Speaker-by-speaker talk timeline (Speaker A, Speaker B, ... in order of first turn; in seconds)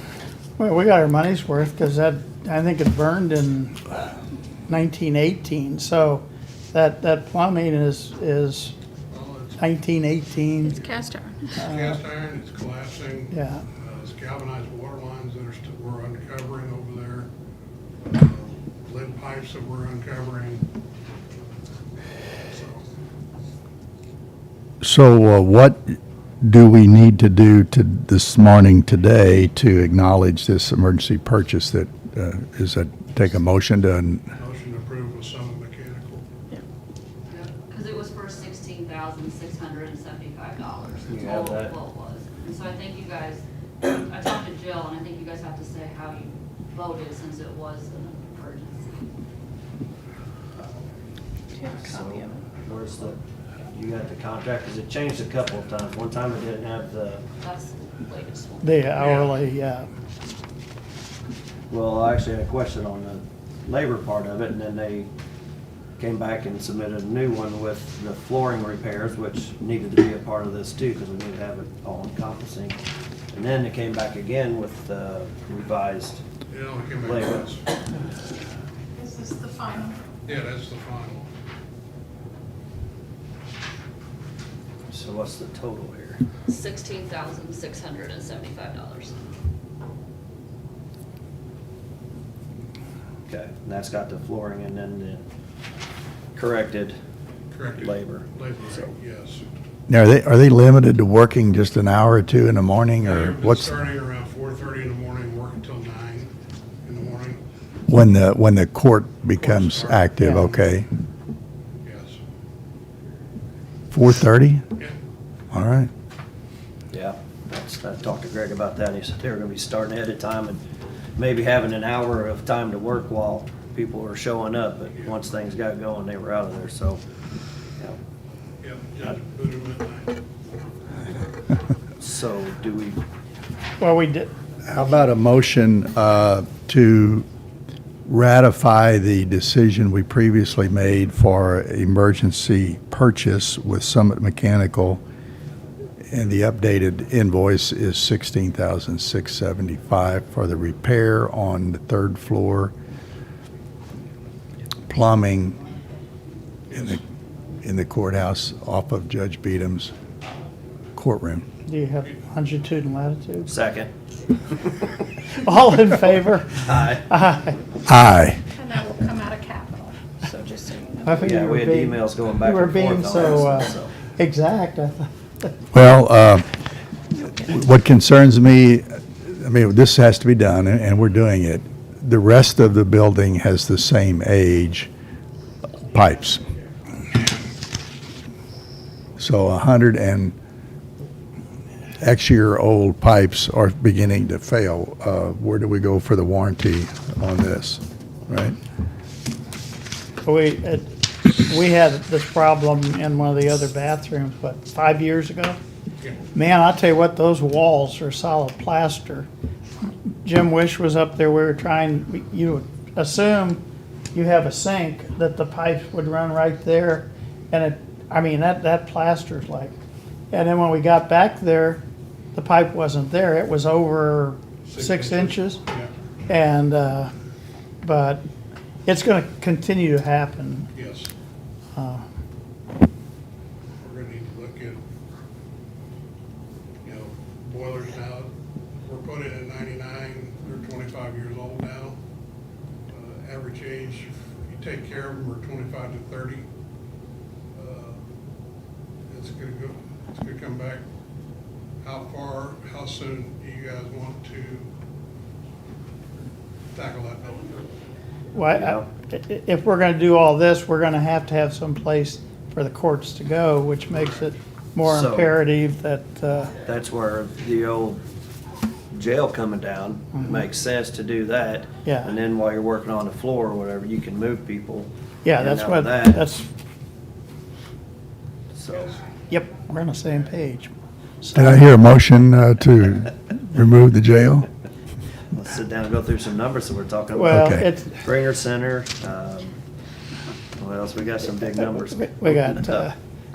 Speaker A: 0.6-4.0, 4.7-8.7, 9.6-10.8, 11.6-11.9, 13.3-13.6, 58.6-59.9, 110.2-110.5, 133.8-134.3, 161.7-163.5, 165.4-167.6, 171.0-175.5, 200.2-205.6, 206.3-209.3, 210.2-219.7, 220.3-221.8, 222.3-225.6, 226.3-227.1, 227.8-228.2, 228.8-230.7, 231.7-232.0, 258.3-266.5, 271.8-272.1, 275.2-276.5, 279.3-280.7, 287.1-288.0, 292.0-293.0
Speaker B: 9.1-9.7, 10.7-17.3, 18.0-20.7, 22.5-22.9, 34.4-36.2, 59.0-59.3, 76.5-77.6, 80.2-81.3, 97.5-99.4, 103.0-106.3, 106.8-107.4, 109.4-110.1, 111.8-112.2, 128.6-130.1, 224.7-225.9, 230.7-231.1, 233.8-234.8, 236.8-238.3, 238.8-242.0, 242.9-246.5, 247.5-248.0, 249.1-250.8, 251.8-254.7, 256.7-257.6
Speaker C: 10.6-11.5, 51.5-52.4, 79.0-80.0, 168.6-171.2
Speaker D: 24.8-34.2, 99.9-103.8, 107.9-110.9, 113.9-114.6, 115.5-115.9, 134.6-137.2, 138.1-145.0, 146.1-152.7, 154.9-155.6, 156.7-157.0, 157.6-159.9, 160.9-161.4, 167.9-168.4, 175.7-176.4, 177.4-184.9, 185.9-186.4, 189.2-190.3, 192.0-198.6, 281.3-284.5, 287.3-287.6
Speaker E: 37.3-49.1, 57.4-58.9, 86.5-89.2
Speaker F: 41.1-41.7, 51.7-53.2, 53.7-57.2, 61.7-65.1, 66.0-72.8, 73.3-76.2, 77.0-77.4, 84.9-86.2, 93.3-95.2, 96.3-97.0, 97.8-98.9, 116.9-120.6, 121.2-127.0, 132.0-133.0, 163.4-163.9, 166.6-167.1, 171.2-173.9, 258.5-258.9, 264.8-265.3, 266.6-268.0, 268.9-276.2, 278.5-279.0, 281.2-281.5, 285.3-289.6, 290.6-292.9